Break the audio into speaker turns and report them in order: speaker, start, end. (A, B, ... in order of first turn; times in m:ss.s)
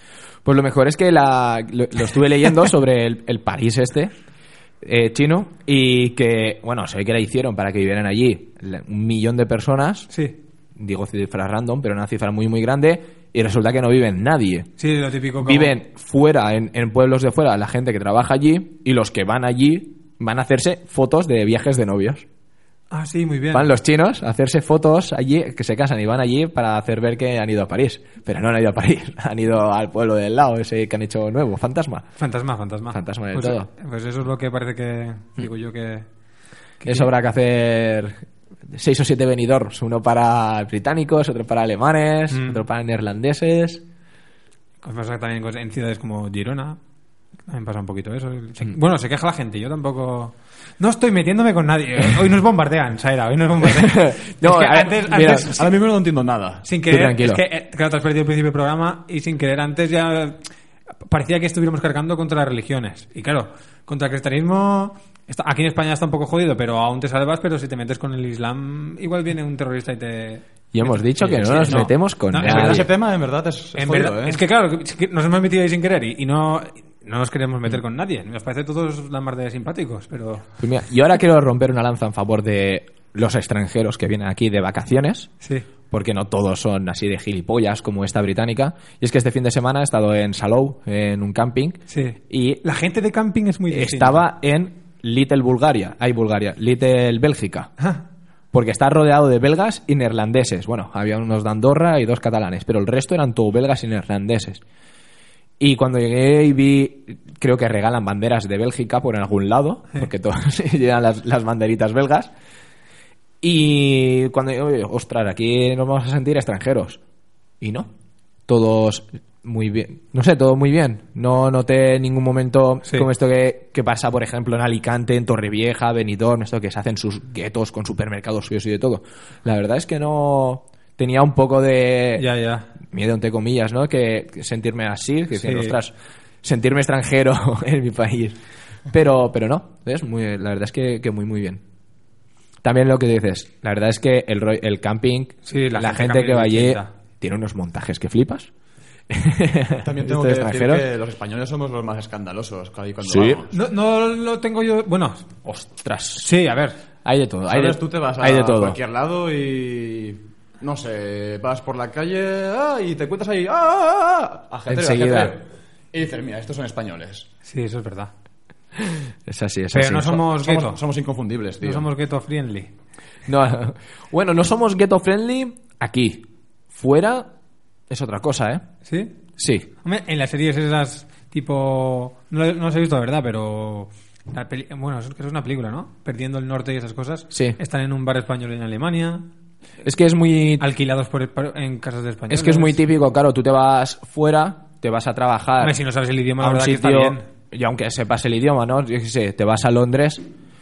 0:00.4-0:04.1 A
0:04.8-0:10.1 A
0:10.1-0:10.4 B
0:10.8-0:14.7 A
0:14.8-0:15.7 B
0:15.4-0:22.2 A
0:22.9-0:23.7 B
0:23.5-0:32.1 A
0:32.2-0:36.1 B
0:32.9-0:33.7 A
0:36.8-0:37.1 B
0:36.8-0:43.8 A
0:42.3-0:42.6 B
0:44.8-0:46.8 B
0:47.5-0:55.8 B
0:53.6-0:55.5 A
0:55.4-0:56.6 C
0:56.6-1:00.4 B
0:56.9-0:57.4 A
1:01.1-1:12.9 B
1:10.7-1:12.9 A
1:12.4-1:14.4 C
1:13.7-1:20.5 B
1:20.6-1:25.3 A
1:25.4-1:25.7 B
1:25.9-1:32.6 A
1:31.9-1:34.2 B
1:33.7-1:37.7 A
1:38.5-1:44.6 A
1:45.6-1:52.3 A
1:53.4-1:57.0 A
1:57.6-1:57.9 A
1:58.5-2:12.3 A
2:12.2-2:12.7 B
2:12.8-2:18.4 A
2:15.4-2:15.8 B
2:18.9-2:21.6 A
2:22.6-2:28.5 A
2:25.4-2:26.9 B
2:29.1-2:30.8 A
2:29.8-2:33.6 C
2:33.0-2:33.4 A
2:33.5-2:35.3 B
2:35.4-2:36.3 A
2:36.2-2:36.8 B
2:37.0-2:38.8 A
2:37.5-2:47.3 C
2:44.7-2:45.4 A
2:47.4-2:48.1 B
2:48.8-2:50.2 A
2:49.7-2:50.8 B
2:50.3-2:51.9 C
2:51.6-2:52.7 B
2:53.3-2:57.3 A
2:57.9-2:58.6 A
2:58.8-2:59.1 B
2:59.4-2:59.7 A
2:59.8-3:09.3 B
3:07.3-3:07.6 A
3:09.8-3:10.6 A
3:10.6-3:12.8 B
3:12.3-3:15.8 A
3:15.6-3:17.2 B
3:16.4-3:20.2 A